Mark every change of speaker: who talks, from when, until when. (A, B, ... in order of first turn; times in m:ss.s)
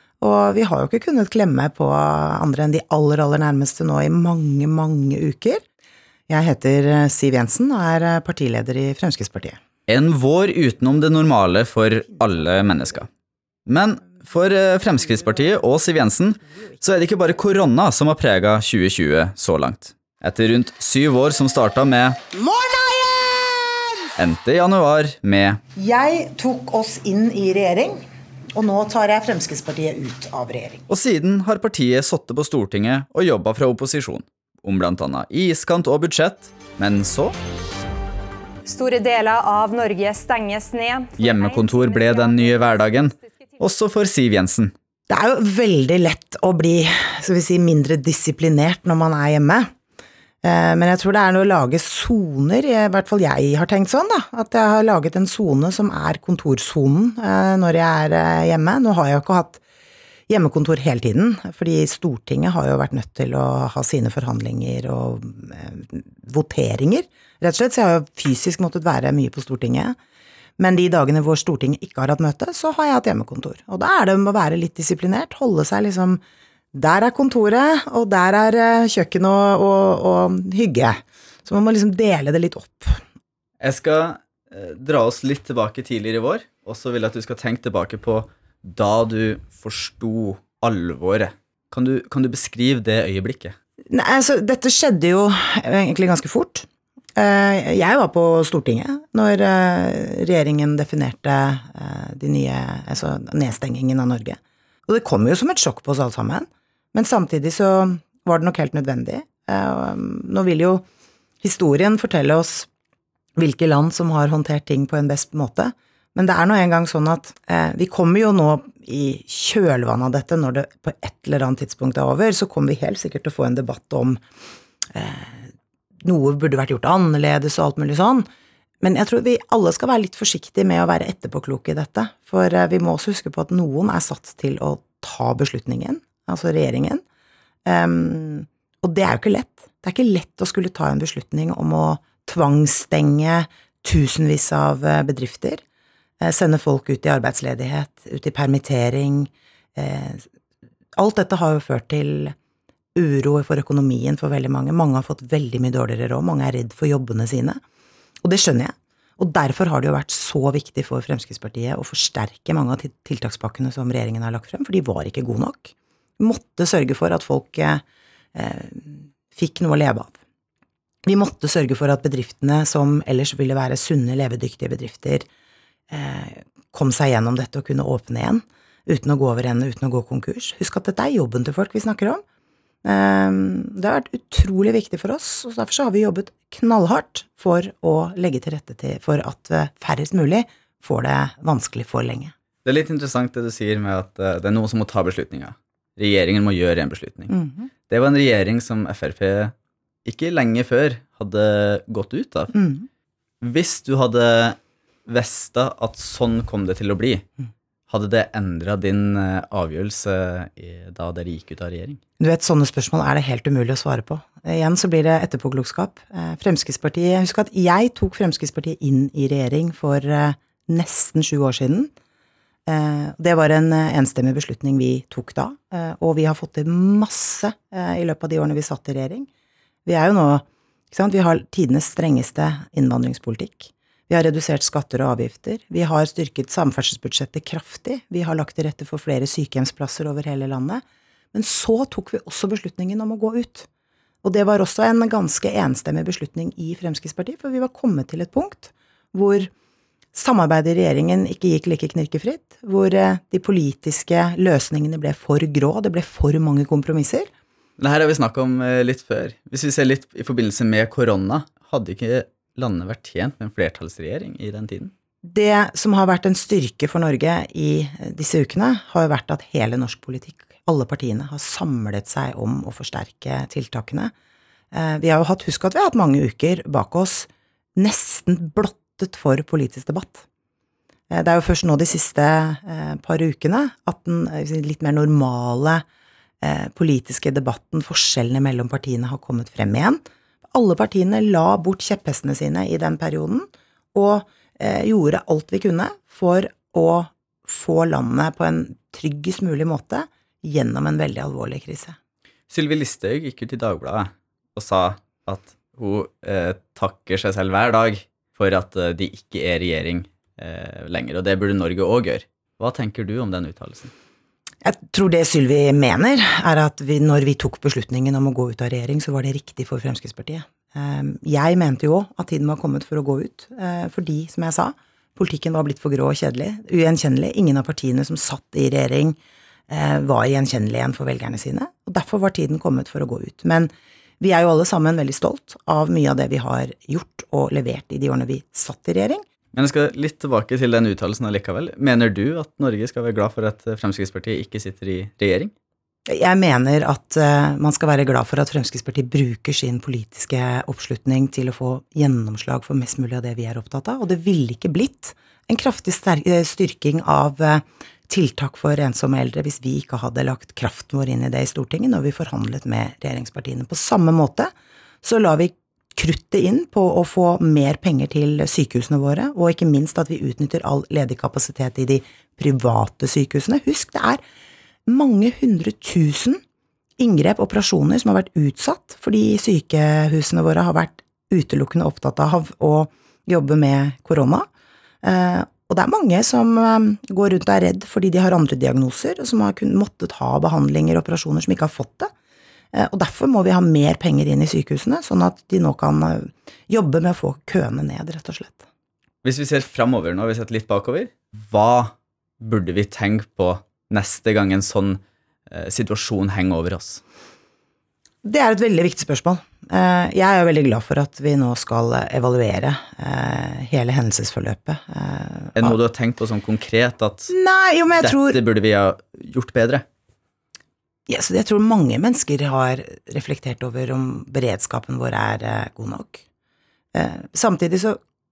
0:00.2-0:05.6 A
0:06.3-0:09.6 A
0:09.9-0:13.1 B
0:12.1-0:12.9 A
0:13.7-0:22.2 B
0:22.3-0:24.2 A
0:24.2-0:25.6 B
0:25.8-0:28.0 A
0:28.6-0:30.8 A
0:30.9-0:37.3 B
0:38.6-0:42.3 C
0:41.2-0:44.7 B
0:45.1-0:49.7 A
0:50.4-0:59.6 A
1:00.3-1:10.0 A
1:10.6-1:16.2 A
1:16.7-1:23.0 A
1:23.6-1:33.6 B
1:33.9-1:50.8 A
1:51.4-1:52.7 A
1:53.4-2:04.2 A
2:04.9-2:05.5 A
2:06.0-2:08.3 A
2:08.8-2:17.0 A
2:17.7-2:25.6 A
2:26.2-2:30.2 A
2:31.0-2:32.4 A
2:33.0-2:37.6 A
2:38.2-2:47.8 A
2:48.4-2:50.2 A
2:51.0-2:55.2 A
2:55.9-3:02.2 A
3:02.8-3:12.3 A
3:12.6-3:17.3 B
3:17.3-3:17.7 A
3:17.9-3:19.5 B
3:20.0-3:22.5 B
3:22.5-3:22.9 A
3:23.4-3:27.2 B
3:27.9-3:32.0 B
3:32.2-3:41.9 A
3:42.7-3:49.3 A
3:49.8-4:00.8 A
4:01.3-4:03.7 A
4:04.2-4:09.5 A
4:10.1-4:17.3 A
4:17.8-4:24.9 B
4:25.2-4:34.1 A
4:34.7-4:40.2 A
4:41.1-4:45.8 A
4:46.4-4:50.0 A
4:50.5-5:02.0 A
5:02.5-5:13.9 B
5:14.6-5:29.2 A
5:29.7-5:39.2 A
5:39.5-5:45.5 B
5:46.1-6:04.5 A
6:05.0-6:14.2 A
6:14.9-6:16.4 A
6:17.0-6:24.5 A
6:25.0-6:32.1 A
6:32.7-6:38.7 A
6:39.2-6:47.0 B
6:48.2-6:55.8 A
6:55.6-6:57.3 B
6:57.3-6:58.4 A
6:58.0-6:59.8 B
7:01.1-7:06.2 A
7:06.9-7:08.0 A